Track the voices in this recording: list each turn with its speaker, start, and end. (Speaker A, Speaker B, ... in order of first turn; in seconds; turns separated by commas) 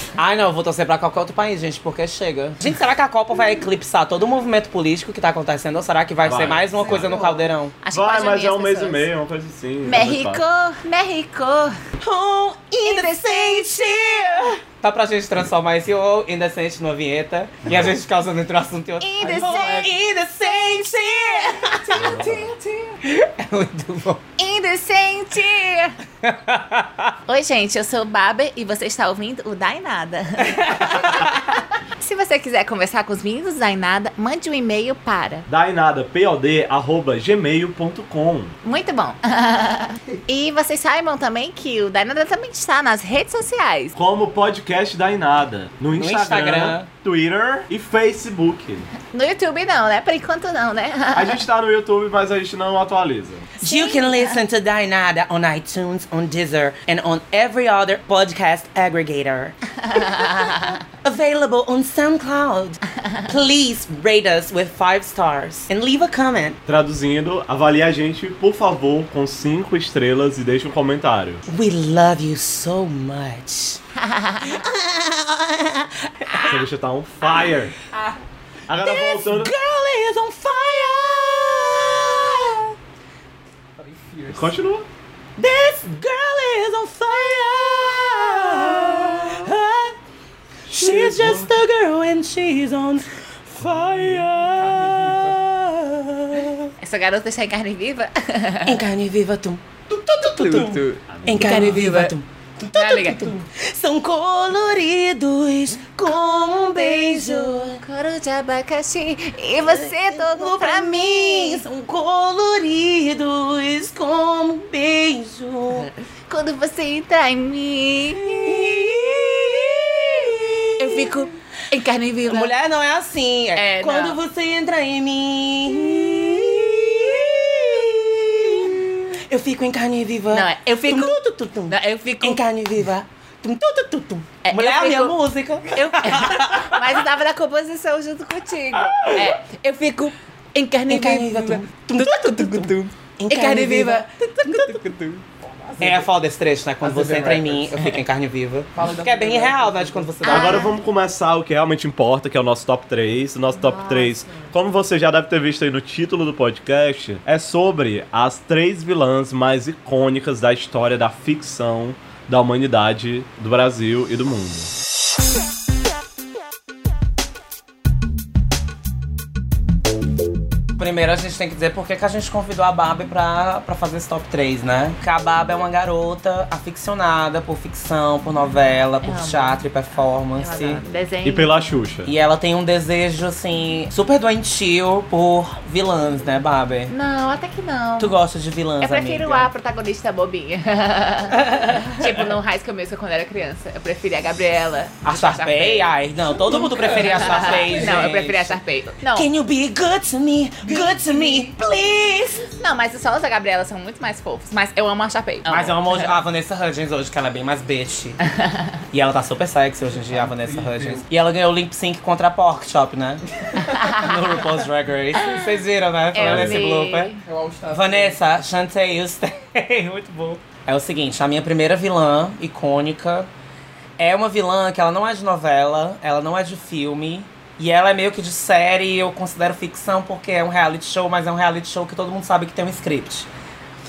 Speaker A: 0.2-7.8, Speaker B: 6.2-7.2, Speaker C: 7.8-9.1, Speaker B: 7.9-10.4, Speaker C: 9.8-11.8, Speaker A: 12.0-22.3, Speaker C: 12.8-14.6, Speaker B: 17.6-17.9, Speaker C: 19.0-19.9, Speaker D: 19.2-20.0, Speaker C: 21.2-22.3, Speaker B: 21.9-22.5, Speaker D: 22.0-22.5, Speaker A: 23.0-24.2, Speaker C: 24.4-26.0, Speaker A: 26.2-27.2, Speaker C: 27.3-35.5, Speaker A: 30.4-31.5, Speaker B: 35.5-38.5, Speaker C: 38.6-43.9, Speaker B: 44.0-48.9, Speaker A: 46.0-46.9, Speaker C: 49.1-51.4, Speaker B: 51.1-53.5, Speaker C: 53.6-54.4, Speaker A: 53.6-60.2, Speaker C: 59.8-60.8, Speaker A: 61.0-66.6, Speaker B: 66.7-71.4, Speaker A: 71.5-73.8, Speaker C: 74.0-74.6, Speaker A: 74.4-76.6, Speaker B: 76.4-77.7, Speaker B: 78.7-79.5, Speaker A: 78.8-82.7, Speaker D: 83.8-84.6, Speaker B: 84.3-84.9, Speaker A: 85.4-90.0, Speaker A: 90.7-96.7, Speaker B: 90.8-91.4, Speaker D: 91.0-91.5, Speaker D: 93.7-95.5, Speaker C: 96.8-98.8, Speaker A: 98.7-107.8, Speaker D: 100.0-101.0, Speaker B: 101.1-101.8, Speaker C: 101.3-102.1, Speaker C: 102.7-103.3, Speaker C: 106.0-111.6, Speaker A: 109.6-115.9, Speaker C: 115.7-122.5, Speaker A: 118.3-121.1, Speaker A: 122.3-136.9, Speaker C: 123.6-124.2, Speaker C: 126.8-127.6, Speaker C: 130.3-132.4, Speaker C: 134.4-135.2, Speaker C: 135.7-144.9, Speaker A: 138.9-139.3, Speaker A: 140.9-144.8, Speaker D: 144.5-146.1, Speaker A: 145.8-150.7, Speaker D: 146.8-148.0, Speaker D: 148.8-150.3, Speaker C: 150.2-150.8, Speaker B: 150.3-164.7, Speaker A: 170.8-180.8, Speaker C: 179.0-179.6, Speaker C: 180.3-181.7, Speaker B: 181.2-182.1, Speaker A: 182.1-186.9, Speaker C: 186.9-188.2, Speaker A: 188.0-189.5, Speaker C: 188.8-199.3, Speaker A: 191.3-192.2, Speaker A: 195.0-198.6, Speaker D: 196.8-198.0, Speaker A: 199.1-202.4, Speaker D: 200.7-201.5, Speaker C: 202.6-206.1, Speaker A: 205.5-208.2, Speaker A: 208.9-217.1, Speaker D: 209.9-211.1, Speaker C: 213.7-214.4, Speaker C: 215.2-215.5, Speaker C: 216.1-217.2, Speaker B: 216.2-216.6, Speaker D: 217.2-218.2, Speaker A: 217.7-223.3, Speaker A: 224.0-233.3